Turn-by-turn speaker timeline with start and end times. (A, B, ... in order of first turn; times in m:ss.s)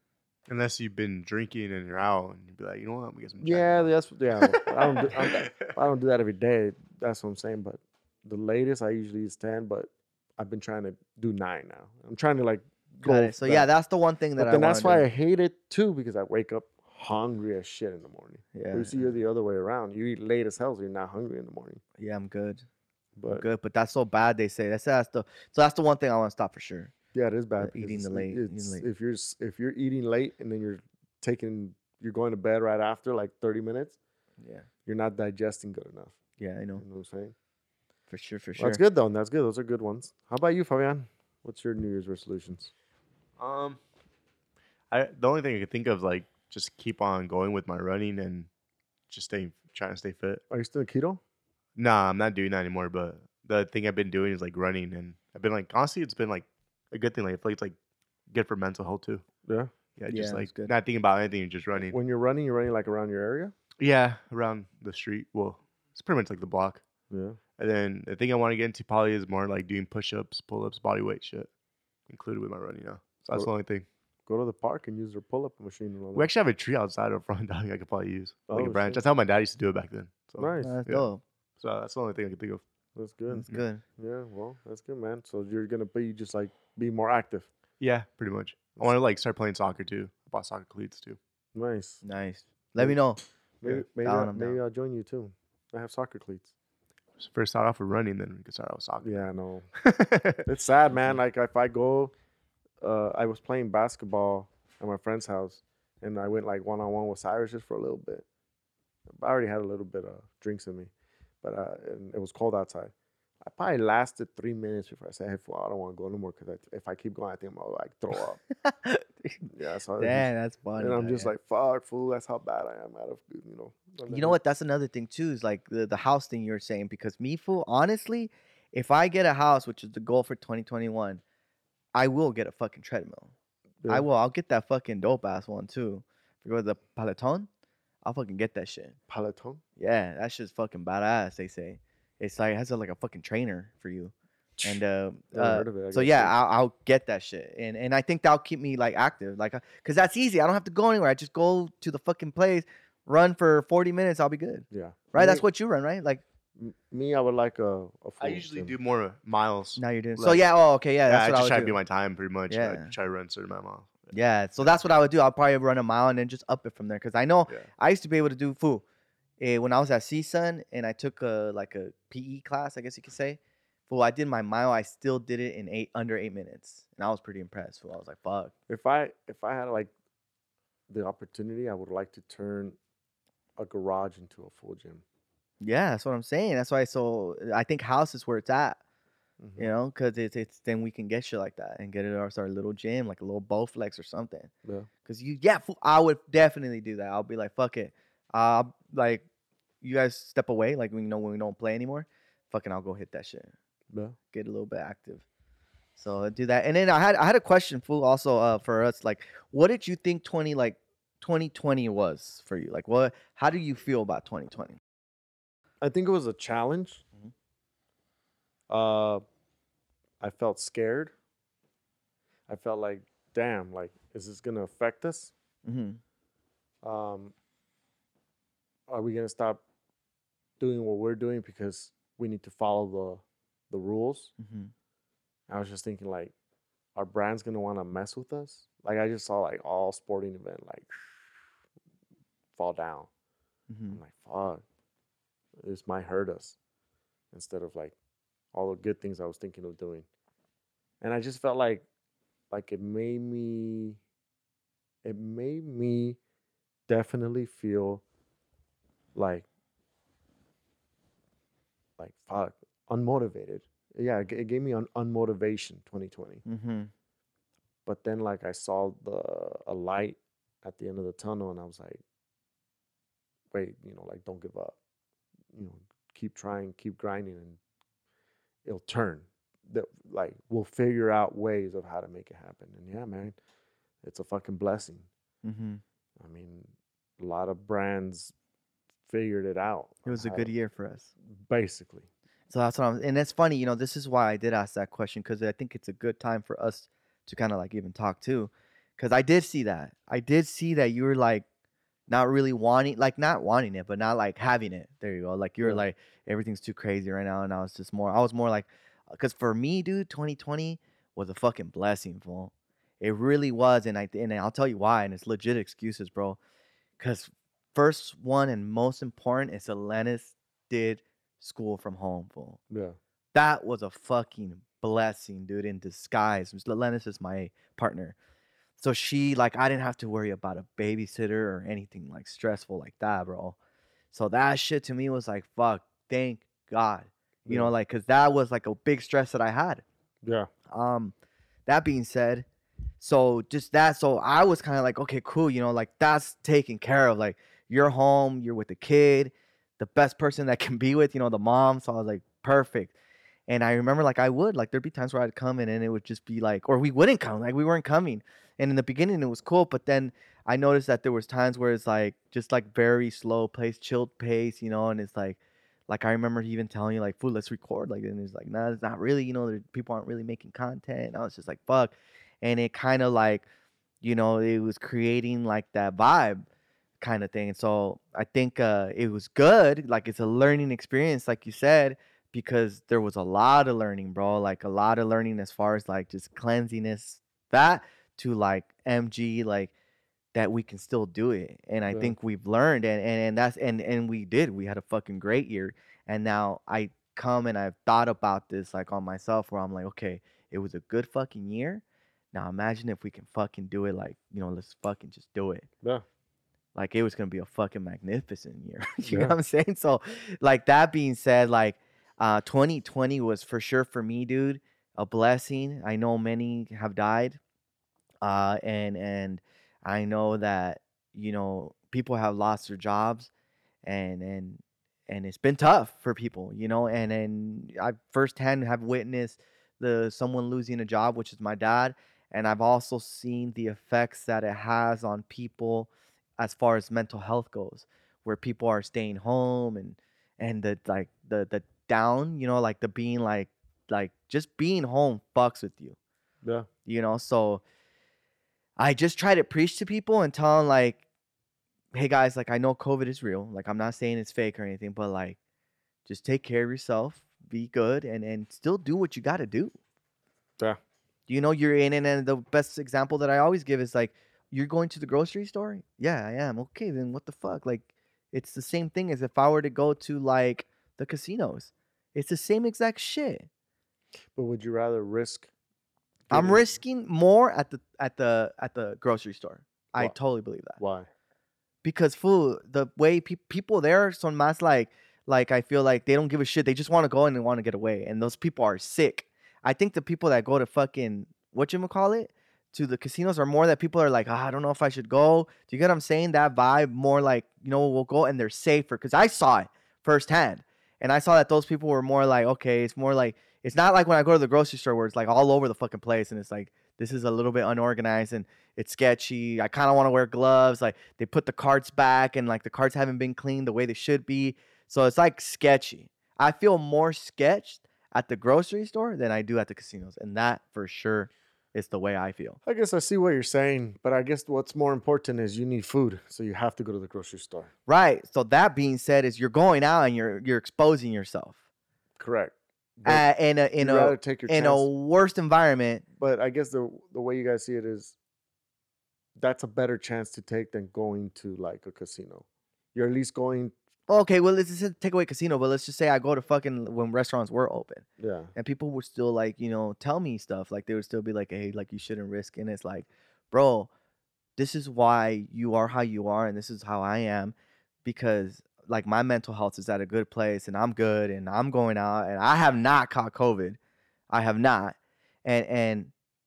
0:00.5-0:05.7 A
0:03.4-0:13.7 B
0:13.0-0:15.0 C
0:14.4-0:21.8 B
0:18.6-0:19.1 C
0:22.0-0:22.6 C
0:23.2-0:23.5 B
0:23.3-0:26.9 C
0:27.1-0:34.0 B
0:27.6-0:28.8 C
0:34.4-0:34.7 C
0:34.9-0:36.2 B
0:36.4-0:36.8 C
0:36.8-0:37.3 B
0:38.1-0:38.8 C
0:38.6-0:42.7 B
0:43.4-0:43.8 A
0:44.9-0:48.5 A
0:49.1-0:50.4 A
0:50.5-0:51.2 B
0:51.8-0:57.8 A
0:58.3-0:59.2 A
0:59.4-0:59.7 B
1:00.0-1:02.0 A
1:00.1-1:00.7 C
1:01.8-1:03.6 B
1:03.8-1:06.8 A
1:07.1-1:07.4 B
1:07.6-1:11.5 A
1:12.1-1:13.8 A
1:14.3-1:16.3 B
1:16.2-1:21.1 A
1:18.5-1:19.0 B
1:20.4-1:20.8 B
1:20.6-1:21.2 C
1:21.6-1:22.6 A
1:23.0-1:27.5 B
1:23.3-1:23.8 C
1:27.8-1:31.2 A
1:31.5-1:32.0 B
1:32.0-1:33.2 C
1:33.6-1:36.5 B
1:33.7-1:34.6 C
1:37.2-1:39.2 A
1:39.0-1:39.7 B
1:39.8-1:40.4 A
1:40.4-1:42.1 B
1:42.8-1:48.3 B
1:49.1-1:50.9 B
1:51.4-1:58.4 B
1:58.6-1:59.5 C
1:59.5-2:04.4 B
2:00.0-2:01.3 C
2:04.1-2:11.2 C
2:12.0-2:13.3 C
2:13.8-2:14.1 B
2:13.9-2:17.5 C
2:18.0-2:19.0 C
2:19.1-2:19.6 B
2:19.8-2:36.2 C
2:25.3-2:26.4 B
2:34.7-2:35.4 B
2:36.6-2:38.7 B
2:38.2-2:40.4 A
2:39.8-2:41.8 C
2:41.1-2:44.1 A
2:42.5-2:42.9 C
2:44.1-2:48.8 C
2:49.4-2:58.5 C
2:58.7-2:59.9 B
3:00.9-3:02.8 B
3:03.6-3:05.0 B
3:05.6-3:08.8 C
3:09.4-3:09.7 B
3:09.6-3:14.5 C
3:15.0-3:19.2 C
3:19.8-3:23.5 C
3:23.9-3:24.2 B
3:24.3-3:25.2 C
3:26.0-3:34.8 C
3:35.8-3:37.0 B
3:38.7-3:39.2 B
3:40.2-3:41.1 B
3:42.5-3:45.3 B
3:45.6-3:46.0 C
3:46.8-3:47.3 B
3:48.9-3:49.6 B
3:50.6-3:54.3 B
3:54.4-3:54.7 C
3:55.5-3:56.3 B
3:57.0-4:01.3 B
4:02.6-4:03.1 B
4:03.7-4:04.0 C
4:03.9-4:04.6 B
4:05.6-4:06.6 B
4:07.3-4:08.0 B
4:08.5-4:10.1 B
4:11.0-4:11.9 B
4:12.5-4:14.0 B
4:15.0-4:16.2 B
4:16.9-4:18.0 B
4:19.2-4:19.5 B
4:22.0-4:26.4 B
4:26.5-4:26.9 C
4:27.9-4:32.0 B
4:33.5-4:34.8 B
4:35.5-4:37.6 B
4:38.6-4:43.4 B
4:44.0-4:45.1 B
4:45.4-4:45.8 C
4:46.2-4:48.3 B
4:49.1-4:50.5 B
4:50.1-4:51.1 C
4:51.4-4:52.1 B
4:52.5-5:01.4 C
5:02.1-5:16.4 C
5:17.0-5:22.6 C
5:22.7-5:23.0 B
5:23.3-5:28.2 C
5:28.8-5:33.6 C
5:34.1-5:39.8 C
5:37.4-5:37.7 B
5:40.2-5:40.5 B
5:40.7-5:41.1 C
5:41.7-5:42.5 C
5:43.0-5:52.9 C
5:53.5-6:13.4 C
6:14.0-6:16.4 C
6:17.0-6:29.7 C
6:30.3-6:45.7 C
6:46.8-6:57.4 C
6:49.1-6:49.4 B
6:58.2-7:03.3 C
7:03.8-7:26.0 C
7:26.4-7:26.7 B
7:26.9-7:27.6 C
7:28.8-7:31.0 C
7:31.9-7:35.4 C
7:36.1-7:39.8 C
7:41.3-7:53.5 C
7:54.3-7:55.5 B
7:56.3-7:56.7 B
7:56.3-8:00.8 C
8:00.8-8:01.1 B
8:01.8-8:42.6 C
8:42.6-8:47.7 B
8:47.9-8:51.6 C
8:52.2-8:53.3 B
8:53.1-8:56.0 C
8:53.8-8:54.9 B
8:56.1-8:58.2 B
8:59.4-9:03.8 B
9:04.1-9:13.9 C
9:08.2-9:08.5 B
9:14.6-9:17.5 C
9:18.0-9:23.8 C
9:24.3-9:26.1 C